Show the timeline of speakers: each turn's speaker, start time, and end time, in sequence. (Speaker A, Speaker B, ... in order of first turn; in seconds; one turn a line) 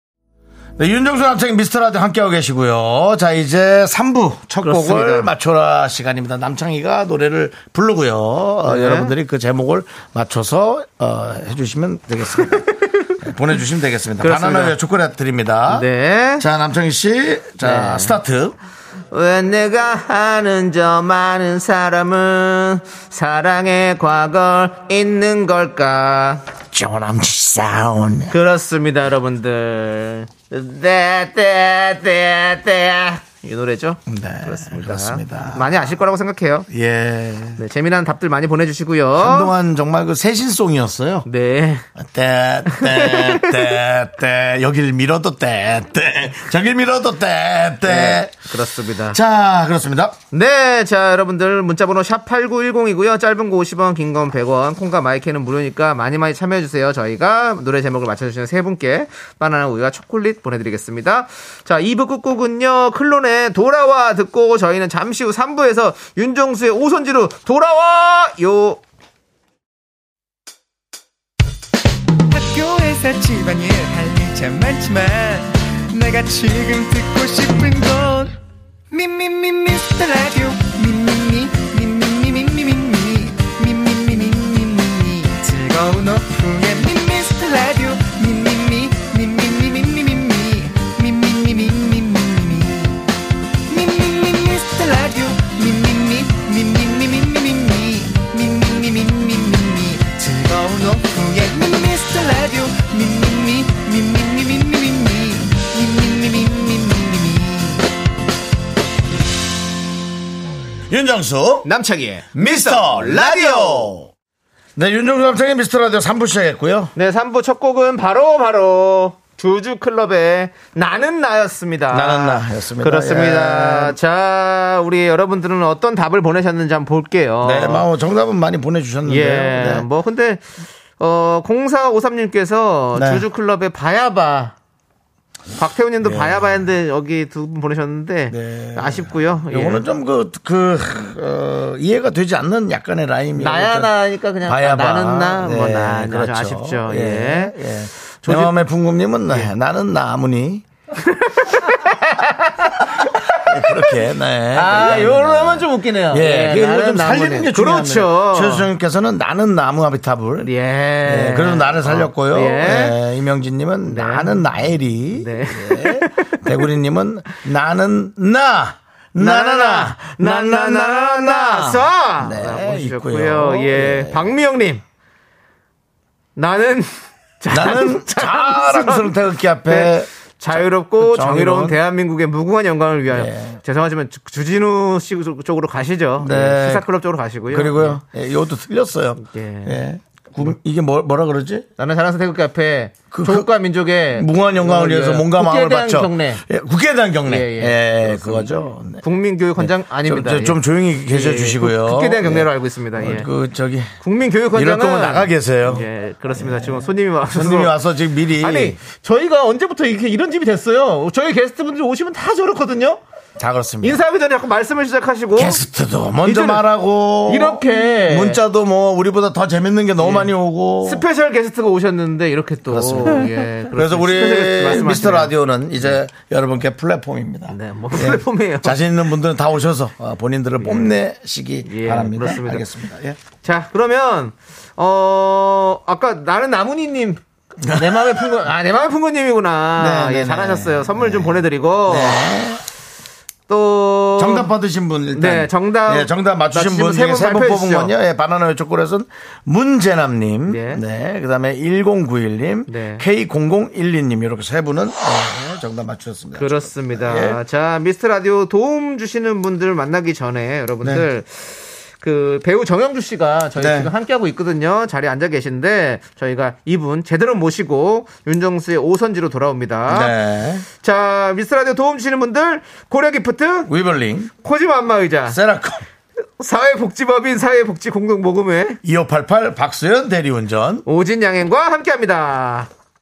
Speaker A: 0.8-18.6
Speaker B: 4.6-5.3
Speaker B: 8.6-9.1
Speaker B: 12.6-13.1
Speaker B: 14.2-14.8
Speaker B: 15.7-16.4
Speaker B: 17.6-18.2
Speaker B: 19.1-26.4
Speaker A: 26.7-28.3
Speaker B: 28.3-36.7
Speaker A: 34.1-35.8
Speaker A: 36.7-37.6
Speaker B: 37.6-39.5
Speaker A: 39.1-41.3
Speaker B: 41.2-41.9
Speaker A: 42.0-48.4
Speaker B: 42.7-43.5
Speaker B: 47.8-49.2
Speaker A: 49.1-50.2
Speaker B: 50.3-68.8
Speaker C: 72.3-78.3
Speaker C: 78.9-93.0
Speaker C: 93.7-107.8
Speaker A: 110.9-111.7
Speaker B: 111.6-113.9
Speaker A: 112.3-114.1
Speaker A: 114.8-116.9
Speaker B: 116.9-127.8
Speaker A: 121.9-124.0
Speaker A: 127.4-129.8
Speaker B: 129.1-134.6
Speaker A: 132.9-133.2
Speaker B: 135.6-139.8
Speaker A: 136.0-136.6
Speaker A: 138.3-150.6
Speaker B: 143.3-147.6
Speaker B: 148.2-148.6
Speaker B: 151.0-153.9
Speaker A: 153.4-160.5
Speaker B: 154.5-158.7
Speaker B: 160.4-163.0
Speaker A: 161.0-174.3
Speaker B: 163.8-164.4
Speaker B: 165.1-166.4
Speaker B: 169.2-174.8
Speaker B: 176.3-188.0
Speaker A: 177.5-181.8
Speaker A: 183.1-183.6
Speaker A: 186.2-186.8
Speaker A: 187.5-191.7
Speaker B: 189.2-189.8
Speaker B: 191.8-196.4
Speaker A: 193.1-193.5
Speaker A: 194.1-199.0
Speaker B: 197.2-203.3
Speaker A: 199.6-203.9
Speaker B: 204.0-207.7
Speaker A: 204.5-208.8
Speaker B: 208.3-213.0
Speaker A: 213.4-214.0
Speaker B: 213.8-215.6
Speaker A: 215.3-221.1
Speaker B: 216.2-216.7
Speaker B: 217.2-218.4
Speaker B: 220.0-226.0
Speaker A: 222.7-233.2
Speaker B: 227.5-228.8
Speaker B: 230.6-231.0
Speaker B: 231.7-232.7
Speaker B: 233.4-242.3
Speaker A: 237.6-238.3
Speaker A: 239.7-242.6
Speaker B: 243.5-244.5
Speaker A: 244.2-257.4
Speaker B: 245.1-247.9
Speaker B: 250.5-250.8
Speaker B: 252.7-253.0
Speaker B: 256.3-270.1
Speaker A: 263.6-263.9
Speaker A: 269.9-270.6
Speaker B: 270.8-273.7
Speaker A: 273.7-274.3
Speaker B: 274.4-275.4
Speaker A: 275.3-275.8
Speaker B: 276.4-278.8
Speaker A: 278.8-280.8
Speaker B: 280.9-282.7